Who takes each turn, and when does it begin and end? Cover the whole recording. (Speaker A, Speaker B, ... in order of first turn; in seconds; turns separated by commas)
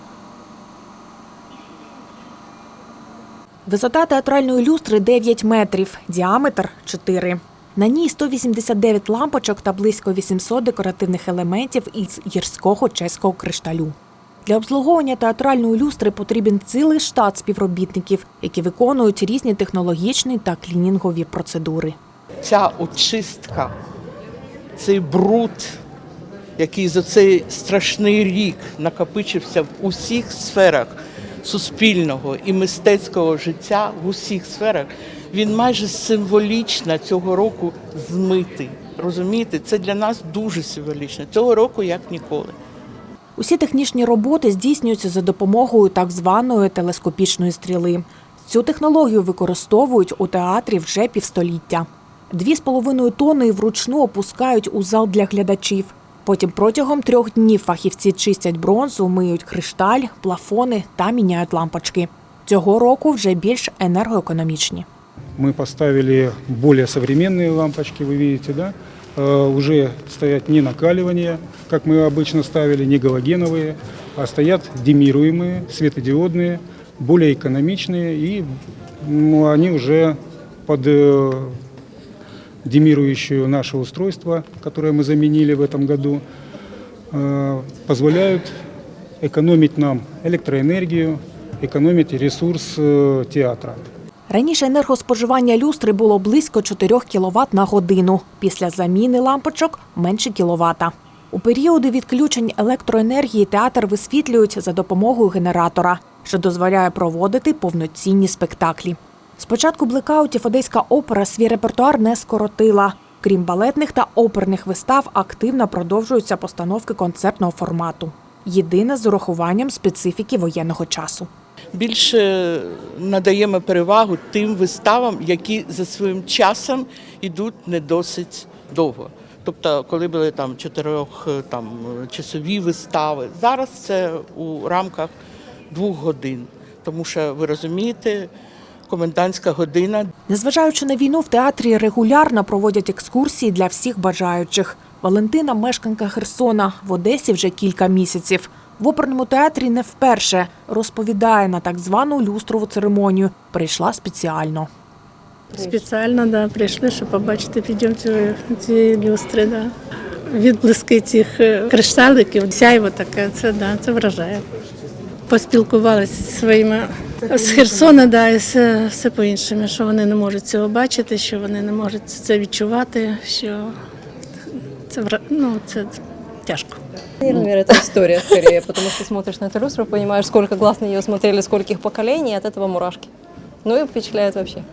Speaker A: 3.6-21.9, Speaker B: 22.4-23.7, Speaker B: 24.8-25.8, Speaker B: 26.6-42.6, Speaker A: 43.4-64.9, Speaker C: 65.4-78.5, Speaker C: 79.0-81.5, Speaker C: 82.6-86.2, Speaker C: 87.1-88.5, Speaker C: 89.2-93.8, Speaker A: 94.3-121.3, Speaker B: 121.7-135.1, Speaker B: 135.7-138.3, Speaker B: 138.9-140.1, Speaker A: 140.3-154.7, Speaker D: 155.5-159.7, Speaker D: 160.3-164.4, Speaker D: 165.3-173.7, Speaker D: 174.5-176.8, Speaker E: 177.2-183.1, Speaker E: 183.6-184.6